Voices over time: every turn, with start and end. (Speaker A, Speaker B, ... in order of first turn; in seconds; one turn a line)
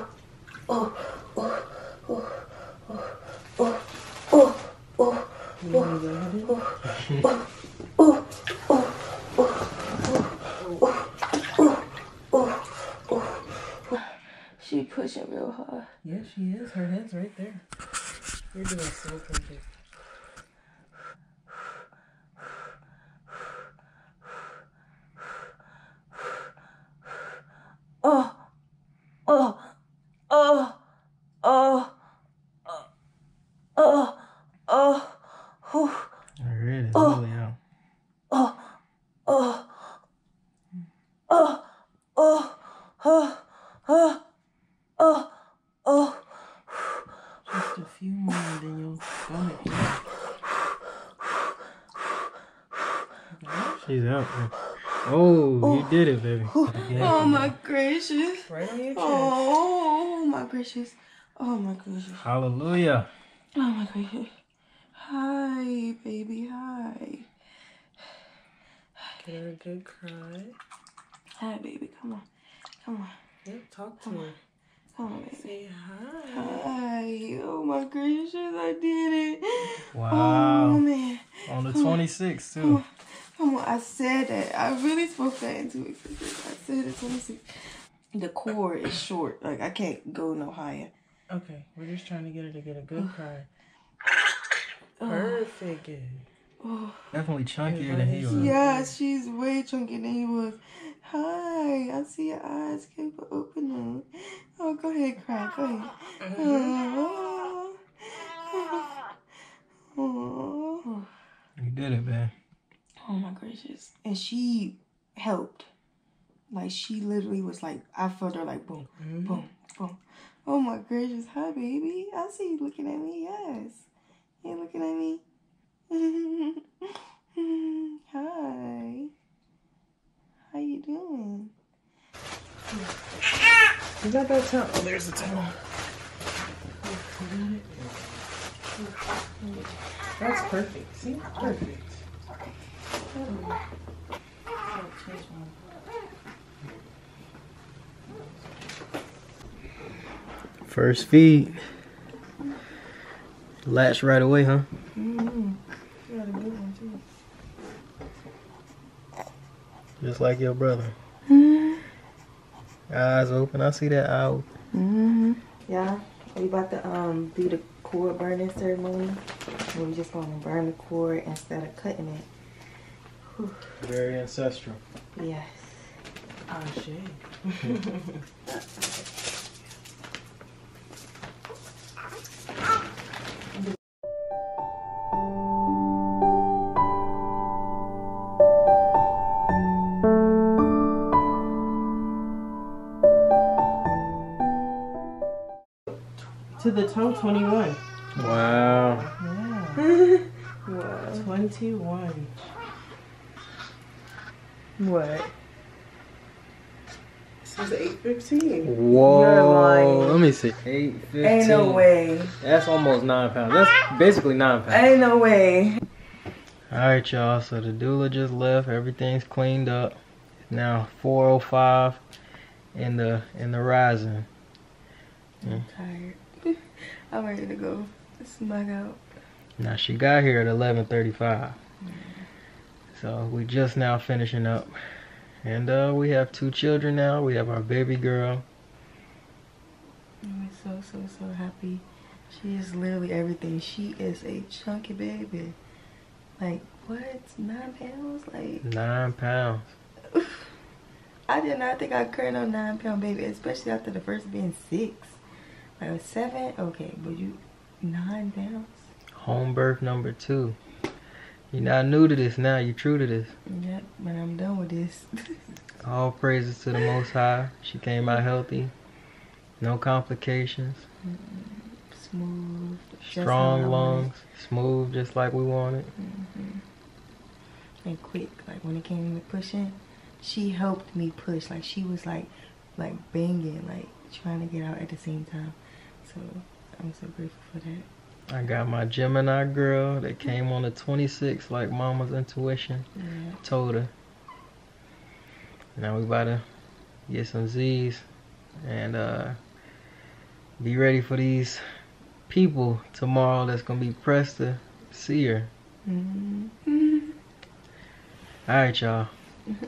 Speaker A: 5.6-7.1
Speaker A: 10.6-10.9
Speaker B: 14.6-15.9
Speaker A: 16.0-17.6
Speaker A: 18.5-19.7
Speaker B: 29.3-29.6
Speaker B: 30.3-30.6
Speaker B: 31.4-31.9
Speaker B: 33.8-34.1
Speaker B: 34.7-35.1
Speaker B: 35.7-36.0
Speaker C: 36.4-37.6
Speaker A: 47.5-50.0
Speaker A: 53.3-53.9
Speaker C: 53.9-57.5
Speaker B: 55.6-55.9
Speaker B: 56.5-62.3
Speaker A: 56.9-57.3
Speaker A: 58.5-59.4
Speaker C: 62.2-63.1
Speaker B: 63.5-64.4
Speaker B: 65.0-67.3
Speaker A: 69.2-70.6
Speaker B: 71.4-72.3
Speaker B: 72.8-73.2
Speaker A: 73.5-74.4
Speaker B: 74.0-74.3
Speaker B: 75.0-75.5
Speaker A: 75.4-76.7
Speaker B: 76.3-82.0
Speaker C: 79.9-80.8
Speaker C: 81.5-82.8
Speaker B: 82.6-90.9
Speaker A: 91.3-93.5
Speaker B: 95.0-95.4
Speaker A: 95.0-96.3
Speaker B: 96.6-97.1
Speaker C: 97.1-98.5
Speaker A: 97.7-98.9
Speaker B: 98.3-109.1
Speaker B: 110.0-111.1
Speaker C: 111.6-112.3
Speaker B: 113.0-115.7
Speaker B: 116.5-123.9
Speaker A: 119.1-119.4
Speaker B: 124.4-125.2
Speaker B: 125.9-129.1
Speaker B: 130.5-131.5
Speaker A: 134.0-135.6
Speaker A: 136.8-137.7
Speaker C: 137.8-138.2
Speaker B: 139.4-139.7
Speaker A: 140.2-142.0
Speaker B: 143.1-143.6
Speaker B: 144.6-145.7
Speaker C: 150.7-151.6
Speaker C: 153.7-154.7
Speaker B: 154.9-157.0
Speaker C: 160.0-160.9
Speaker B: 161.3-161.8
Speaker C: 162.9-164.5
Speaker B: 164.7-172.3
Speaker B: 173.2-173.8
Speaker C: 173.8-174.8
Speaker B: 175.2-175.9
Speaker A: 176.5-178.2
Speaker A: 196.5-199.9
Speaker C: 198.2-199.1
Speaker B: 199.8-201.3
Speaker A: 201.1-202.5
Speaker B: 204.8-205.3
Speaker A: 207.4-208.8
Speaker C: 208.6-211.9
Speaker B: 209.0-210.2
Speaker B: 211.2-212.3
Speaker C: 212.4-214.8
Speaker B: 214.7-215.8
Speaker C: 216.7-220.0
Speaker C: 220.5-222.0
Speaker C: 222.7-224.3
Speaker B: 225.4-229.0
Speaker C: 229.6-231.6
Speaker B: 231.8-232.3
Speaker C: 232.9-234.8
Speaker C: 235.4-238.4
Speaker B: 240.2-245.6
Speaker B: 246.4-248.6
Speaker C: 248.6-249.7
Speaker B: 250.1-250.5
Speaker B: 251.3-255.2
Speaker B: 255.8-258.9
Speaker C: 259.2-260.6
Speaker C: 261.5-263.4
Speaker B: 263.5-265.3
Speaker C: 265.8-268.7
Speaker C: 269.6-270.9
Speaker B: 271.0-274.1
Speaker C: 273.1-275.9
Speaker B: 276.0-276.6
Speaker B: 277.9-287.9
Speaker C: 288.3-292.9
Speaker B: 293.0-293.4
Speaker C: 293.4-293.9
Speaker C: 295.8-296.4
Speaker C: 297.1-298.0
Speaker C: 298.6-299.4
Speaker C: 300.6-301.6
Speaker C: 302.3-305.5
Speaker B: 305.9-307.1
Speaker C: 308.5-309.1